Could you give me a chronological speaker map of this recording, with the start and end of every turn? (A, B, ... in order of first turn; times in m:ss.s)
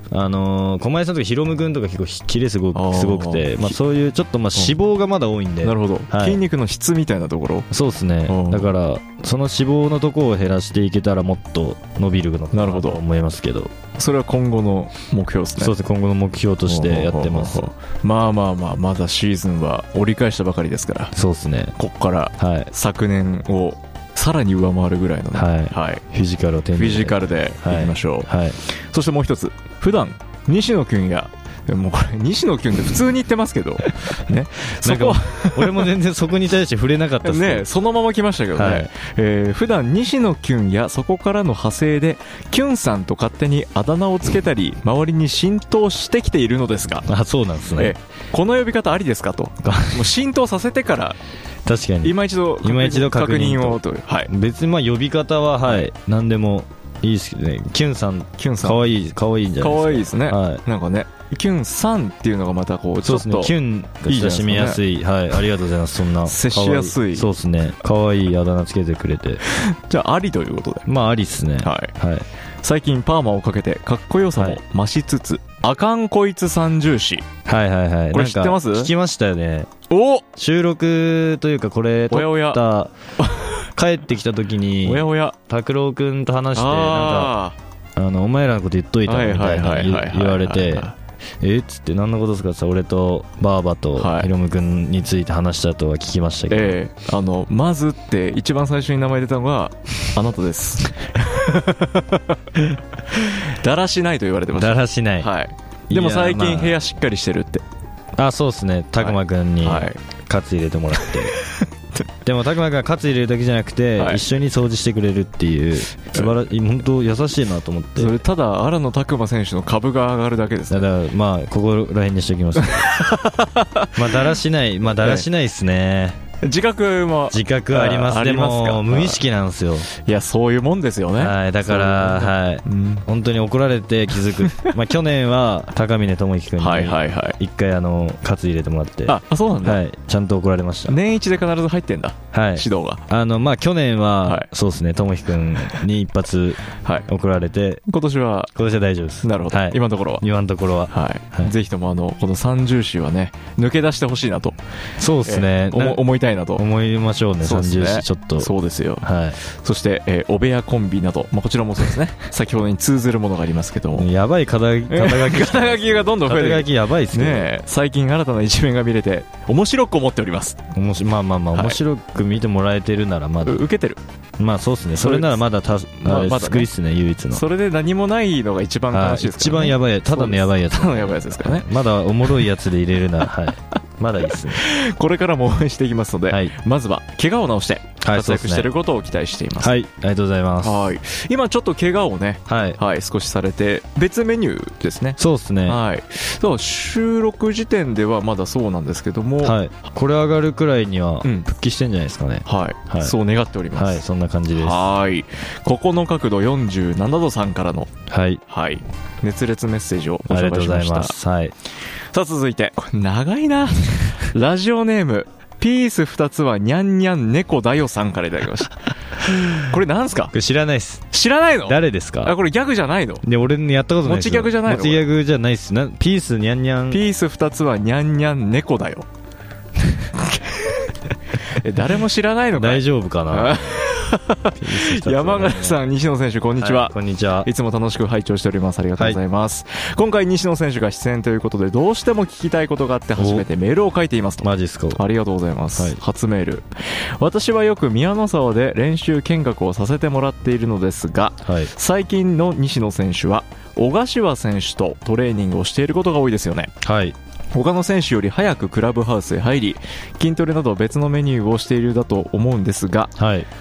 0:00.1-0:06.4 A
0:02.7-0:03.8 B
0:05.6-0:07.7 B
0:07.7-0:13.7 A
0:08.2-0:08.7 B
0:12.5-0:13.0 B
0:14.0-0:15.7 B
0:15.6-0:17.7 A
0:16.6-0:21.1 B
0:21.1-0:21.7 A
0:21.8-0:26.0 B
0:22.4-0:22.7 A
0:25.3-0:28.6 A
0:26.7-0:35.9 B
0:34.8-0:37.7 A
0:37.2-0:47.1 B
0:38.5-0:38.9 A
0:47.1-0:47.9 A
0:47.7-0:51.2 B
0:49.6-0:50.1 A
0:51.6-1:00.6 A
0:52.0-0:54.3 B
0:55.6-0:55.9 B
0:58.4-0:58.8 B
0:59.6-1:03.5 B
1:03.0-1:09.4 A
1:04.0-1:04.8 B
1:06.2-1:07.3 B
1:09.5-1:10.9 B
1:10.9-1:12.2 A
1:11.6-1:11.9 B
1:12.6-1:17.2 B
1:14.4-1:14.6 A
1:17.4-1:19.7 A
1:18.1-1:18.9 B
1:19.9-1:20.2 B
1:20.4-1:22.9 A
1:22.1-1:22.6 B
1:23.2-1:23.6 B
1:23.8-1:27.4 A
1:24.8-1:25.4 B
1:26.5-1:27.6 B
1:28.0-1:30.9 A
1:29.0-1:30.9 B
1:31.4-1:36.8 A
1:34.0-1:34.3 B
1:36.5-1:47.6 B
1:44.5-1:45.3 A
1:45.9-1:46.8 A
1:48.2-1:51.4 A
1:49.0-1:50.0 B
1:51.0-1:51.7 B
1:52.2-1:58.2 A
1:54.0-1:54.2 B
1:56.0-1:56.4 B
1:58.0-2:00.9 B
2:00.7-2:02.9 A
2:02.6-2:04.3 B
2:04.0-2:06.2 A
2:04.9-2:05.2 B
2:06.4-2:09.2 B
2:07.3-2:09.9 A
2:10.0-2:13.1 B
2:11.2-2:21.0 A
2:14.3-2:14.7 B
2:16.6-2:17.4 B
2:19.0-2:19.8 B
2:20.9-2:23.0 B
2:22.3-2:27.8 A
2:27.9-2:28.5 B
2:28.5-2:31.5 A
2:29.2-2:30.2 B
2:30.9-2:34.6 B
2:35.0-2:36.0 A
2:35.2-2:36.6 B
2:36.6-2:38.5 A
2:37.4-2:44.1 B
2:39.0-2:39.4 A
2:43.9-2:47.5 A
2:44.9-2:50.6 B
2:50.7-2:53.6 A
2:51.5-2:51.8 B
2:53.4-2:54.0 B
2:54.4-2:57.4 A
2:55.0-2:55.4 B
2:56.0-2:56.7 B
2:57.3-3:01.7 B
2:58.9-3:04.6 A
3:04.3-3:09.7 B
3:06.3-3:06.5 A
3:08.0-3:08.7 A
3:09.6-3:10.9 A
3:10.6-3:19.6 B
3:12.5-3:12.8 A
3:15.2-3:15.8 A
3:19.4-3:23.1 A
3:22.4-3:27.9 B
3:23.7-3:24.9 A
3:28.1-3:28.4 A
3:28.5-3:31.2 B
3:30.2-3:31.5 A
3:32.1-3:38.8 B
3:39.6-3:40.3 B
3:40.3-3:41.1 A
3:41.1-3:43.2 B
3:41.6-3:42.4 A
3:43.2-3:47.0 A
3:44.0-3:45.0 B
3:46.9-3:49.1 B
3:50.2-3:50.9 B
3:51.4-4:06.6 B
3:52.5-3:53.9 A
3:54.5-3:55.8 A
3:56.6-3:57.5 A
4:03.2-4:03.4 A
4:04.4-4:05.0 A
4:05.7-4:06.0 A
4:07.2-4:16.7 B
4:11.4-4:11.7 A
4:16.8-4:17.2 A
4:17.5-4:23.1 B
4:23.2-4:23.5 A